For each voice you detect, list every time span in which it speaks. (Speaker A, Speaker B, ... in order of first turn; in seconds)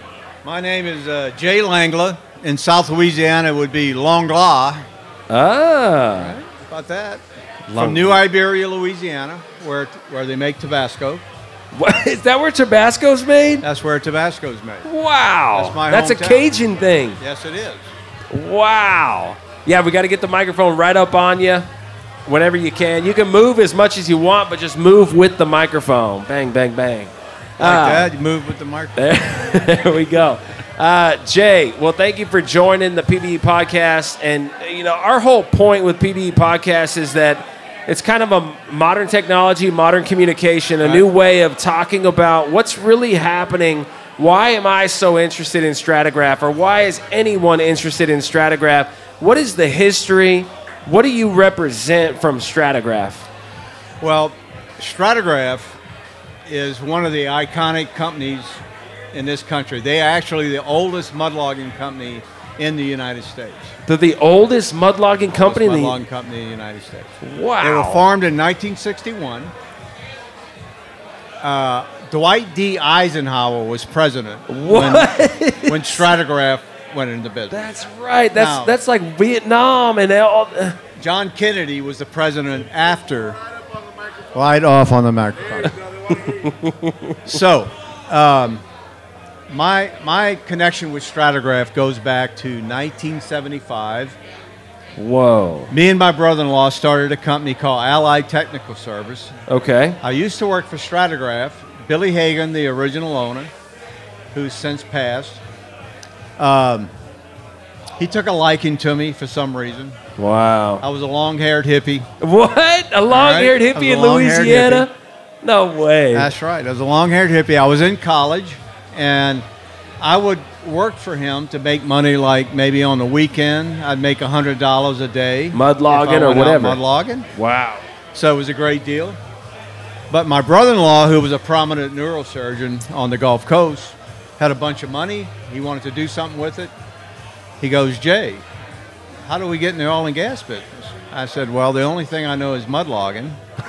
Speaker A: 0.4-4.8, 6.2-7.2, 7.7-11.2, 13.6-14.9, 15.5-16.5, 17.2-17.9, 27.6-29.1, 54.0-55.8, 56.5-58.6, 59.1-63.7, 65.4-69.5, 71.4-77.7, 78.3-78.7, 81.0-83.4, 84.3-85.7, 87.2-88.6, 89.5-94.2, 95.7-99.3, 100.0-103.5, 104.3-105.4, 106.4-106.9, 108.0-110.0, 110.8-112.1, 113.1-114.9, 116.1-119.4, 120.0-127.3, 128.1-129.2, 130.1-136.7, 137.6-138.4, 139.2-143.4
Speaker B: 5.3-6.4, 7.7-8.2, 11.7-13.7, 14.8-17.2, 18.3-21.7, 22.2-28.1, 29.0-53.3, 63.9-66.0, 67.2-68.0, 74.5-76.1, 77.5-80.8, 86.1-87.4, 95.0-95.7, 99.5-100.0, 110.2-110.8, 112.2-114.9, 115.4-116.3, 125.5-126.8, 127.3-127.8